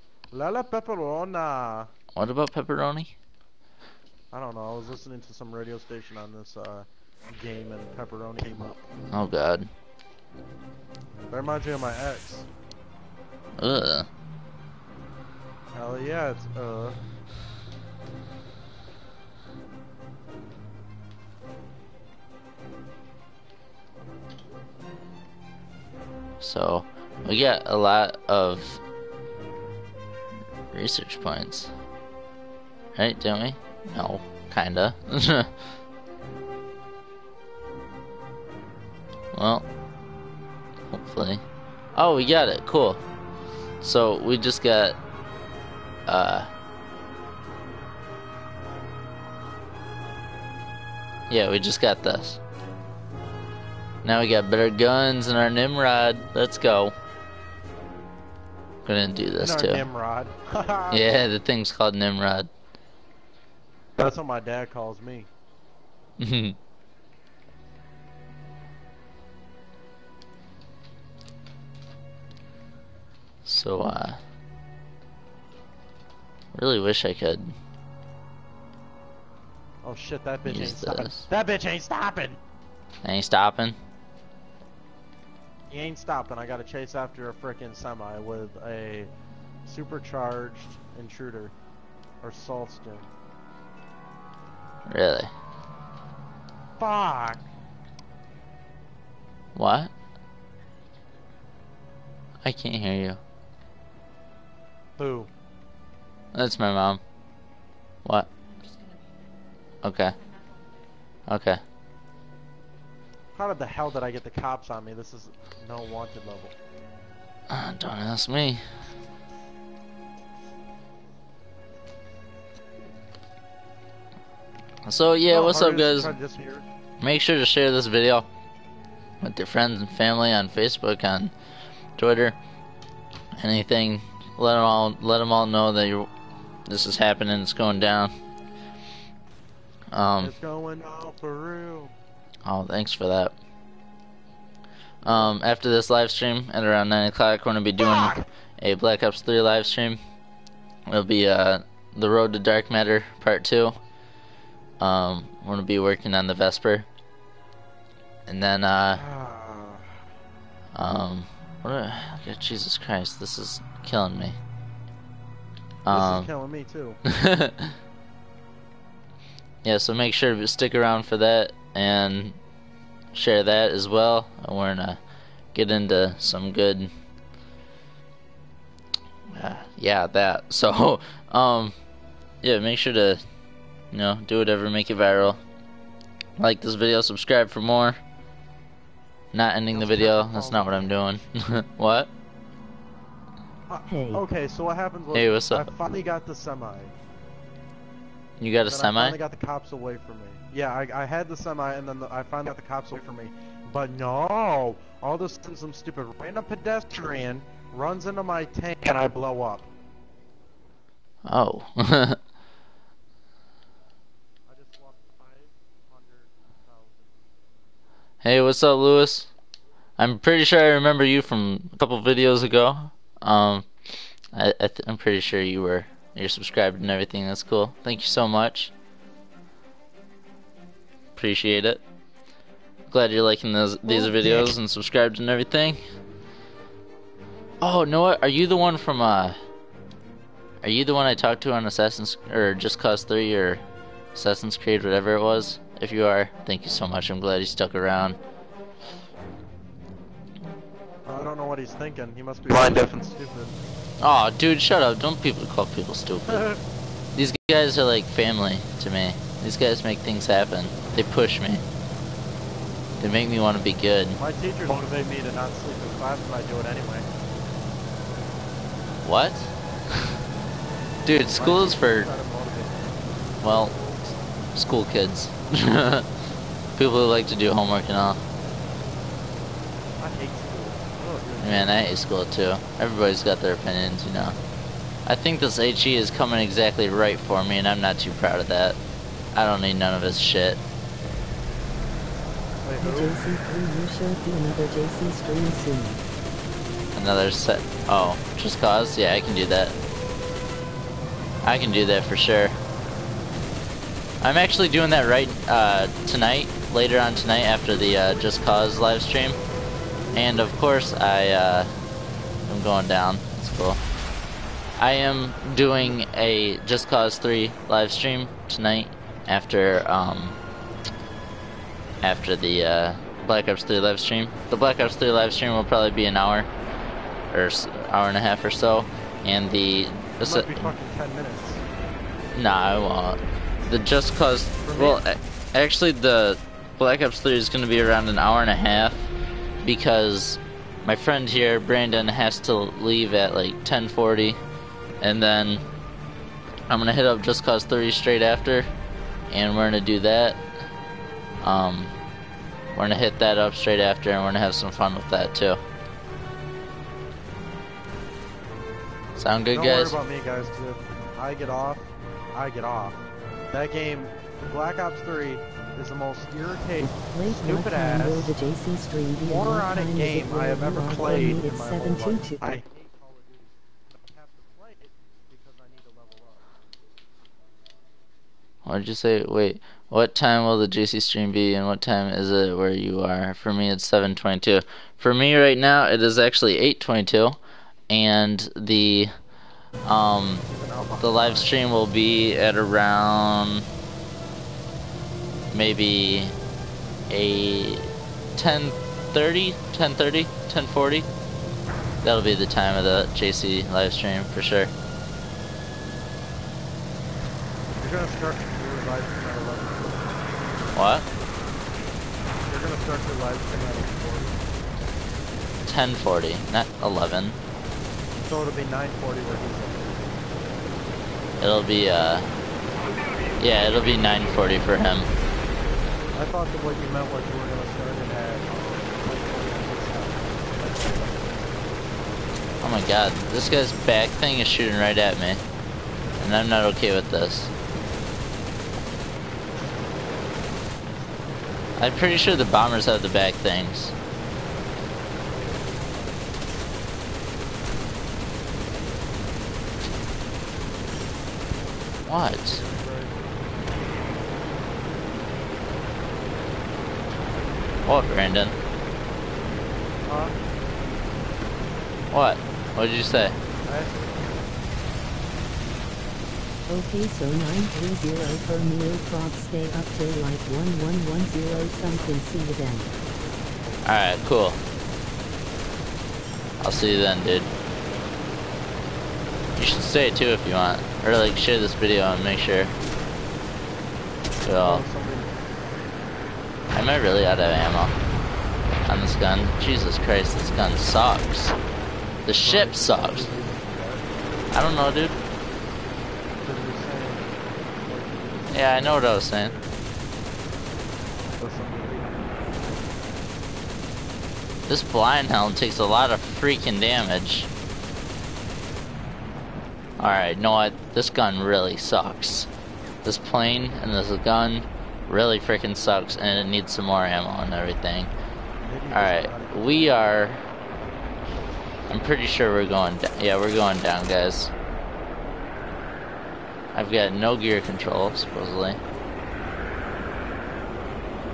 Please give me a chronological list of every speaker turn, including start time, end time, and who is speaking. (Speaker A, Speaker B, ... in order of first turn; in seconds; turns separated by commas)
Speaker A: 0.3-1.9, Speaker B: 2.1-3.1, Speaker A: 4.3-8.9, Speaker B: 9.1-9.7, Speaker A: 11.3-12.5, Speaker B: 13.6-14.1, Speaker A: 15.7-17.0, Speaker B: 26.4-28.8, Speaker B: 30.7-31.7, Speaker B: 33.0-35.5, Speaker B: 39.3-39.6, Speaker B: 40.9-41.4, Speaker B: 41.9-43.0, Speaker B: 43.8-45.0, Speaker B: 46.1-46.5, Speaker B: 51.3-52.4, Speaker B: 54.0-56.9, Speaker B: 58.8-59.9, Speaker A: 59.4-61.2, Speaker B: 60.9-62.5, Speaker A: 64.0-65.3, Speaker B: 66.2-66.6, Speaker B: 73.5-74.2, Speaker B: 76.5-77.5, Speaker A: 79.8-82.4, Speaker B: 80.5-81.3, Speaker B: 83.0-83.8, Speaker A: 85.7-89.1, Speaker A: 89.6-91.5, Speaker A: 92.2-93.1, Speaker B: 94.9-95.3, Speaker A: 96.8-97.5, Speaker B: 99.5-99.9, Speaker B: 102.4-103.2, Speaker A: 105.0-105.3, Speaker B: 106.3-107.0, Speaker B: 108.0-108.3, Speaker B: 109.8-110.1, Speaker B: 111.3-111.6, Speaker A: 113.3-116.5, Speaker B: 117.5-118.6, Speaker B: 124.8-126.1, Speaker A: 125.3-126.7, Speaker B: 127.0-128.3, Speaker B: 129.2-131.3, Speaker B: 132.0-132.4, Speaker B: 133.3-136.1, Speaker B: 136.7-138.1, Speaker B: 139.9-140.3, Speaker A: 140.2-141.9, Speaker B: 142.4-143.3, Speaker A: 145.0-145.3, Speaker B: 145.0-150.0, Speaker A: 147.8-148.3, Speaker B: 150.9-153.7, Speaker B: 154.8-156.9, Speaker B: 158.3-159.0, Speaker A: 158.9-160.0, Speaker B: 160.7-164.4, Speaker B: 165.8-166.3, Speaker A: 165.9-167.0, Speaker B: 167.0-167.7, Speaker B: 169.6-172.4, Speaker B: 173.1-175.0, Speaker B: 175.5-176.9, Speaker B: 179.3-181.7, Speaker B: 182.4-183.2, Speaker B: 183.9-185.4, Speaker B: 186.4-188.0, Speaker B: 189.3-192.1, Speaker A: 189.7-191.0, Speaker A: 193.7-196.9, Speaker C: 193.9-194.2, Speaker B: 195.1-195.7, Speaker B: 198.4-199.2, Speaker A: 198.7-209.7, Speaker B: 211.2-212.2, Speaker A: 214.5-217.2, Speaker B: 218.2-219.3, Speaker B: 220.0-223.7, Speaker B: 224.3-228.7, Speaker B: 231.2-231.8, Speaker B: 232.9-235.8, Speaker A: 233.9-234.5, Speaker B: 237.6-239.4, Speaker B: 240.6-243.6, Speaker B: 244.1-248.2, Speaker A: 251.1-253.6, Speaker B: 254.0-256.5, Speaker A: 256.3-256.6, Speaker B: 257.1-261.6, Speaker B: 263.0-264.2, Speaker A: 264.2-267.1, Speaker B: 269.0-270.1, Speaker B: 271.0-272.1, Speaker A: 271.3-273.2, Speaker B: 273.4-273.8, Speaker B: 274.5-276.1, Speaker B: 276.8-278.2, Speaker A: 280.0-281.9, Speaker B: 281.4-284.4, Speaker B: 285.1-288.8, Speaker B: 289.3-290.6, Speaker A: 292.6-293.2, Speaker C: 292.8-296.0, Speaker B: 296.9-299.8, Speaker B: 301.4-302.6, Speaker B: 304.2-309.4, Speaker B: 310.1-311.7, Speaker B: 312.5-313.8, Speaker B: 314.8-320.4, Speaker B: 322.0-326.5, Speaker B: 327.3-330.7, Speaker A: 330.2-331.6, Speaker B: 332.3-339.1, Speaker A: 334.6-335.0, Speaker B: 339.6-344.4, Speaker B: 345.0-345.6, Speaker B: 346.7-348.7, Speaker B: 349.3-350.4, Speaker B: 351.4-351.9, Speaker B: 352.7-355.6, Speaker B: 359.2-359.9, Speaker A: 359.5-368.3, Speaker C: 366.8-372.5, Speaker A: 369.2-376.5, Speaker B: 378.6-387.4, Speaker B: 387.9-389.1, Speaker B: 389.8-390.5, Speaker A: 390.4-391.8, Speaker B: 391.0-393.6, Speaker B: 395.5-396.3, Speaker B: 397.1-401.1, Speaker B: 402.0-404.7, Speaker A: 407.8-410.6, Speaker B: 410.7-411.1, Speaker A: 412.5-414.5, Speaker B: 415.6-417.4, Speaker A: 418.2-420.4, Speaker B: 421.4-422.3, Speaker B: 423.4-425.1, Speaker A: 426.1-431.7, Speaker B: 432.6-435.4, Speaker B: 436.2-437.5, Speaker A: 439.5-440.3, Speaker B: 441.8-443.9, Speaker B: 452.1-452.6, Speaker A: 452.5-453.4, Speaker B: 457.9-458.5, Speaker A: 460.1-460.4, Speaker B: 462.1-463.4, Speaker A: 463.6-464.5, Speaker C: 466.7-472.9, Speaker A: 471.5-472.1, Speaker B: 473.8-474.6, Speaker B: 476.6-477.5, Speaker B: 479.6-482.7, Speaker B: 484.4-484.9, Speaker A: 484.6-485.7, Speaker B: 486.7-487.9, Speaker B: 488.9-491.6, Speaker B: 492.2-493.3, Speaker A: 492.4-494.1, Speaker B: 494.5-495.2, Speaker A: 496.4-499.8, Speaker B: 498.5-499.5, Speaker A: 501.2-502.9, Speaker B: 504.6-507.5, Speaker B: 510.0-512.5, Speaker B: 513.0-518.1, Speaker A: 518.6-520.3, Speaker B: 518.9-520.4, Speaker B: 521.9-524.5, Speaker B: 526.7-528.8